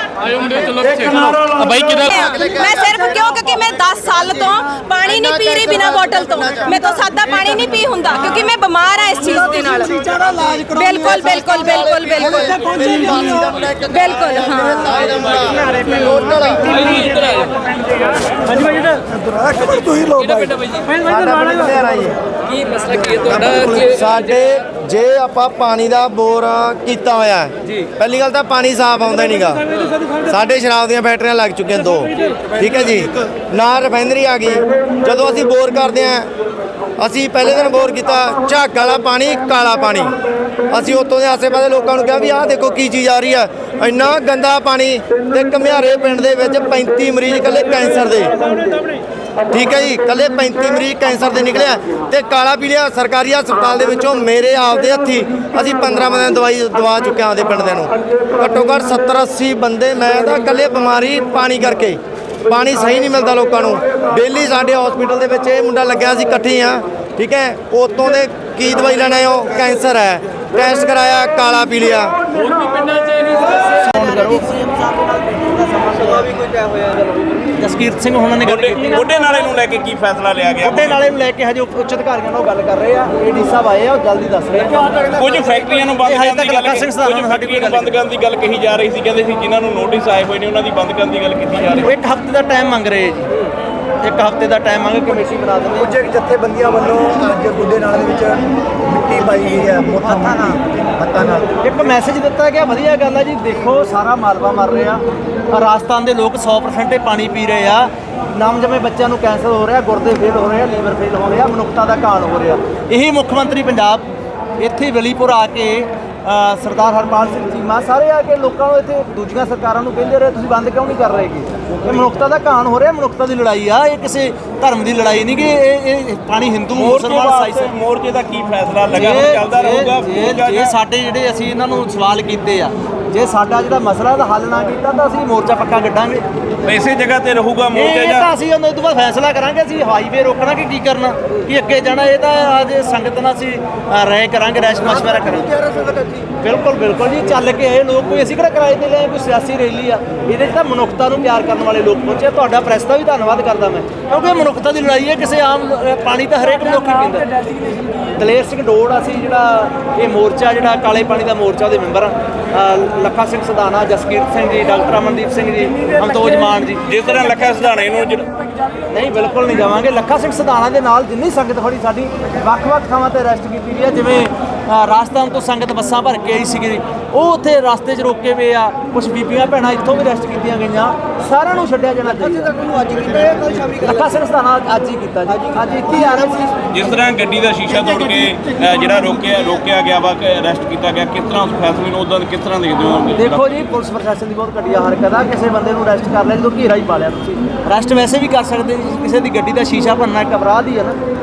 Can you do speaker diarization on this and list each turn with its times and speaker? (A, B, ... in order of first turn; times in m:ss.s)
0:00.4-0:02.4 A
0:02.1-0:15.0 B
0:15.0-0:16.8 C
0:19.0-0:20.6 D
0:21.1-0:22.1 D
0:21.4-0:22.1 C
0:22.7-0:23.6 D
0:23.4-0:29.7 C
0:30.2-0:36.3 C
0:37.0-0:40.2 C
0:40.7-0:48.4 C
0:49.5-1:12.2 C
1:12.6-1:19.0 E
1:18.5-1:21.0 F
1:20.6-1:25.0 E
1:25.1-1:31.9 F
1:26.0-1:28.0 E
1:31.8-1:33.3 E
1:34.0-1:36.0 E
1:35.8-1:41.5 D
1:40.0-1:40.6 E
1:41.6-1:54.0 E
1:54.6-2:07.7 E
2:06.8-2:10.7 F
2:08.9-2:16.2 E
2:16.6-2:18.3 F
2:17.7-2:37.3 E
2:38.0-2:46.8 E
2:46.8-2:48.3 F
2:48.9-3:06.6 E
3:06.7-3:13.4 F
3:13.2-3:21.0 E